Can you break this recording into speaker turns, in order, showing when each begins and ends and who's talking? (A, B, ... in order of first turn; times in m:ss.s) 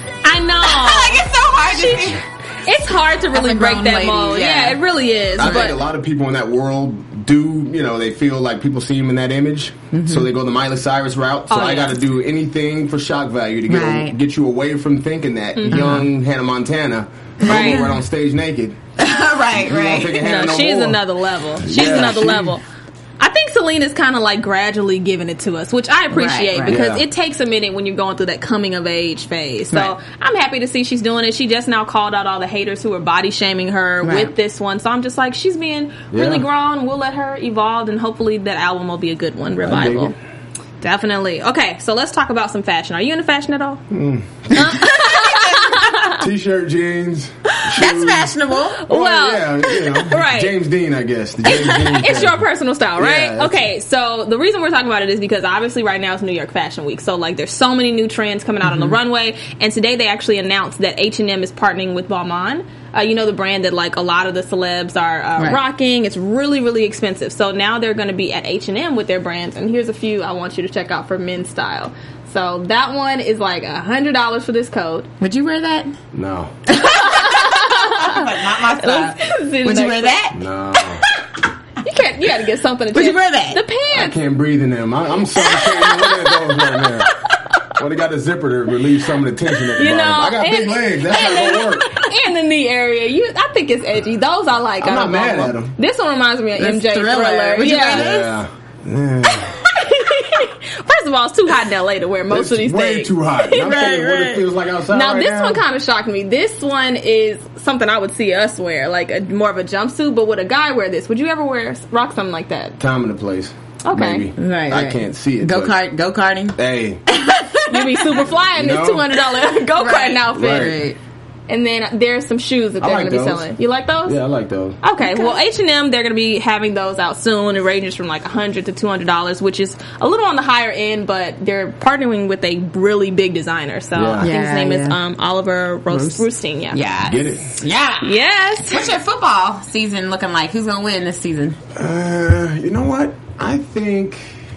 0:00.2-0:05.8 A
0:00.6-0:02.2 B
0:03.3-0:04.8 B
0:05.4-0:18.8 C
0:09.9-0:10.3 B
0:11.5-0:12.0 A
0:13.7-0:14.2 B
0:15.6-0:15.9 A
0:15.7-0:16.0 B
0:17.4-0:17.9 B
0:17.4-0:17.9 A
0:19.0-0:20.2 B
0:19.5-0:21.0 C
0:20.1-0:22.6 A
0:21.6-0:22.6 C
0:21.8-0:22.0 B
0:23.2-0:40.2 A
0:26.1-0:26.8 B
0:26.7-0:27.0 C
0:34.0-0:34.3 B
0:36.1-0:36.4 C
0:39.6-0:40.1 C
0:40.8-0:43.8 A
0:43.9-0:44.8 C
0:44.5-0:46.2 A
0:44.5-0:45.9 B
0:46.0-0:48.3 C
0:47.6-0:48.8 B
0:48.8-0:50.6 A
0:48.9-0:52.4 C
0:51.4-1:15.1 A
0:53.0-0:53.6 C
0:58.6-0:59.0 B
1:15.2-1:15.9 B
1:16.1-1:16.5 C
1:16.7-1:20.4 B
1:16.8-1:20.2 A
1:20.3-1:21.0 C
1:21.8-1:24.2 A
1:22.9-1:23.6 B
1:23.9-1:27.1 C
1:27.7-1:32.0 C
1:29.8-1:38.2 A
1:34.8-1:35.7 C
1:36.6-1:38.4 B
1:37.8-1:39.6 C
1:39.4-1:52.8 A
1:42.3-1:45.6 C
1:43.7-1:44.2 B
1:52.8-1:55.8 C
1:53.8-1:54.3 A
1:54.4-1:58.2 B
1:56.5-1:57.0 C
1:57.7-2:00.8 A
1:58.5-1:59.2 C
1:59.8-2:01.0 B
2:00.3-2:00.8 C
2:01.5-2:04.2 A
2:02.8-2:03.5 C
2:04.0-2:04.8 C
2:04.8-2:16.8 A
2:05.0-2:05.3 B
2:13.9-2:14.3 C
2:14.2-2:15.0 B
2:15.9-2:21.6 B
2:17.0-2:17.6 C
2:18.0-2:18.9 A
2:21.8-2:24.3 C